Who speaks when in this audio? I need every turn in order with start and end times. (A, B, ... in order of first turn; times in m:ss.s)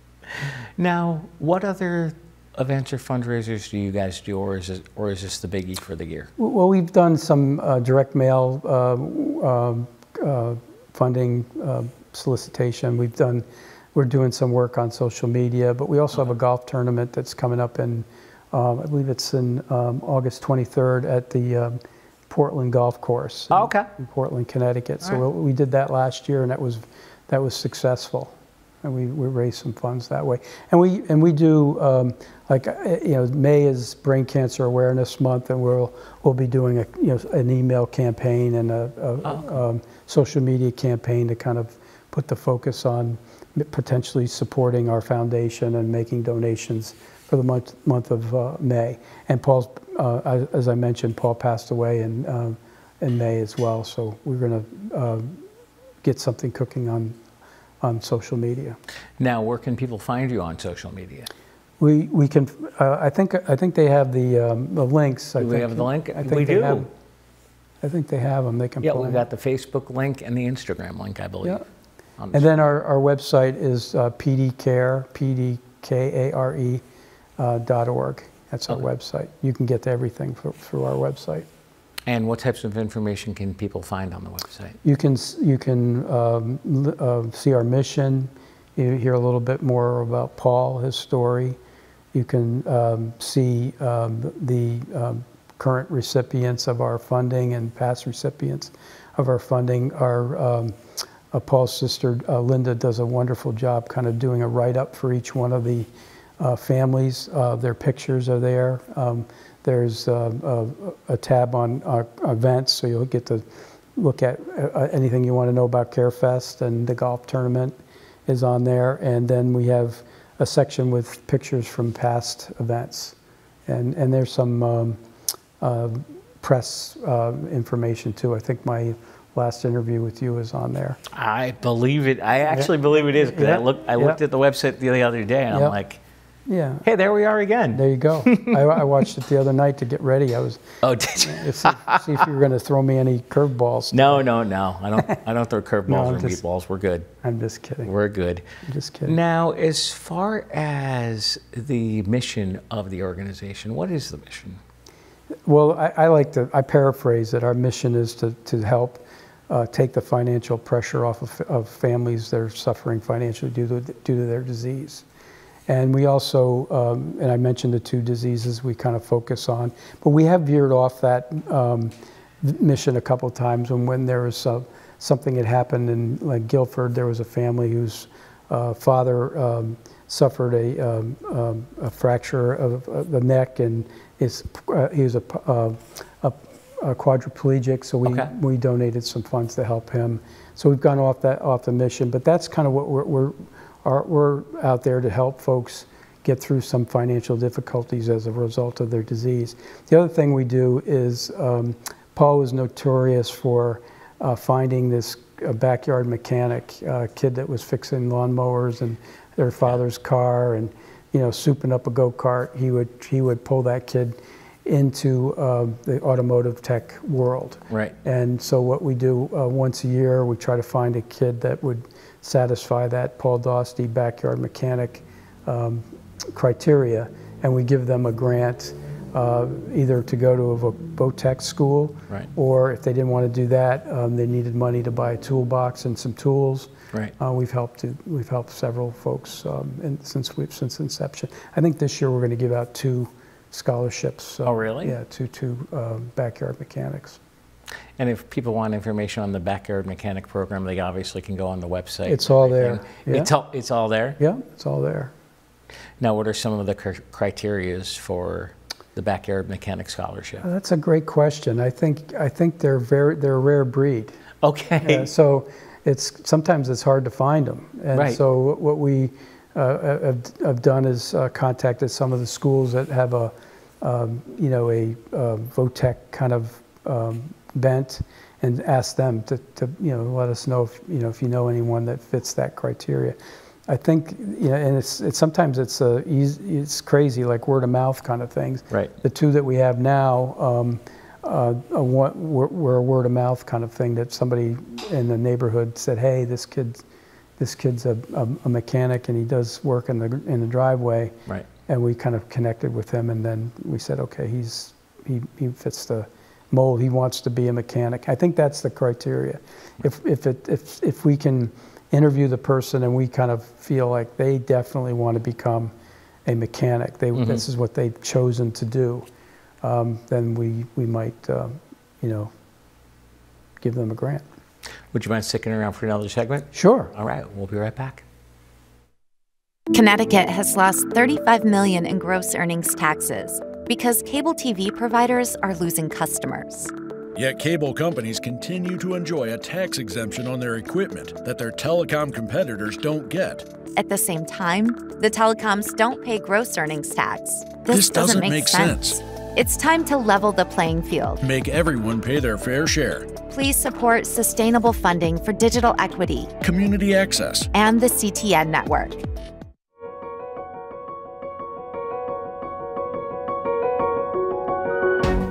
0:00.3-0:06.3 A
0:06.4-0:55.4 B
0:23.5-0:23.9 A
0:56.0-0:57.2 B
0:57.8-0:58.8 B
0:59.2-1:01.3 A
1:01.8-1:06.9 B
1:05.4-1:06.9 A
1:07.8-1:09.2 B
1:08.8-1:11.6 A
1:12.2-1:12.6 A
1:12.3-1:16.8 B
1:17.4-1:21.5 B
1:22.1-1:24.8 A
1:24.8-1:31.6 B
1:32.1-1:40.8 B
1:41.3-1:45.9 B
1:46.4-1:53.4 B
1:54.0-1:57.8 B
1:58.3-2:03.2 B
2:03.7-2:05.0 B
2:05.6-2:11.0 B
2:11.1-2:16.0 A
2:12.5-2:14.2 B
2:15.5-2:15.8 B
2:16.5-2:16.9 B
2:16.8-2:18.6 A
2:17.7-2:24.3 B
2:20.8-2:22.0 A
2:23.9-2:27.1 A
2:25.9-2:26.4 B
2:27.2-2:27.9 B
2:27.8-2:28.4 A
2:28.6-2:29.2 B
2:29.0-2:34.6 A
2:35.5-2:45.0 B
2:45.7-4:07.2 B
3:37.7-3:38.0 A
4:04.4-4:05.0 A
4:08.0-4:14.2 A
4:12.1-4:13.3 B
4:14.2-4:15.1 B
4:16.0-4:20.4 A
4:20.4-4:24.2 B
4:24.4-4:25.1 A
4:24.8-4:43.2 B
4:27.9-4:28.2 A
4:43.7-4:56.8 B
4:57.4-5:01.2 B
5:01.7-5:15.7 B
5:16.3-5:19.1 B
5:17.2-5:17.4 A
5:19.6-5:22.3 B
5:23.6-5:24.2 B
5:24.9-5:28.0 A
5:26.5-5:26.9 B
5:29.7-5:36.7 C
5:37.2-5:43.5 D
5:43.8-5:51.2 C
5:47.7-5:49.0 D
5:51.2-5:53.1 D
5:53.3-5:56.3 C
5:56.4-5:57.5 D
5:57.5-5:59.0 C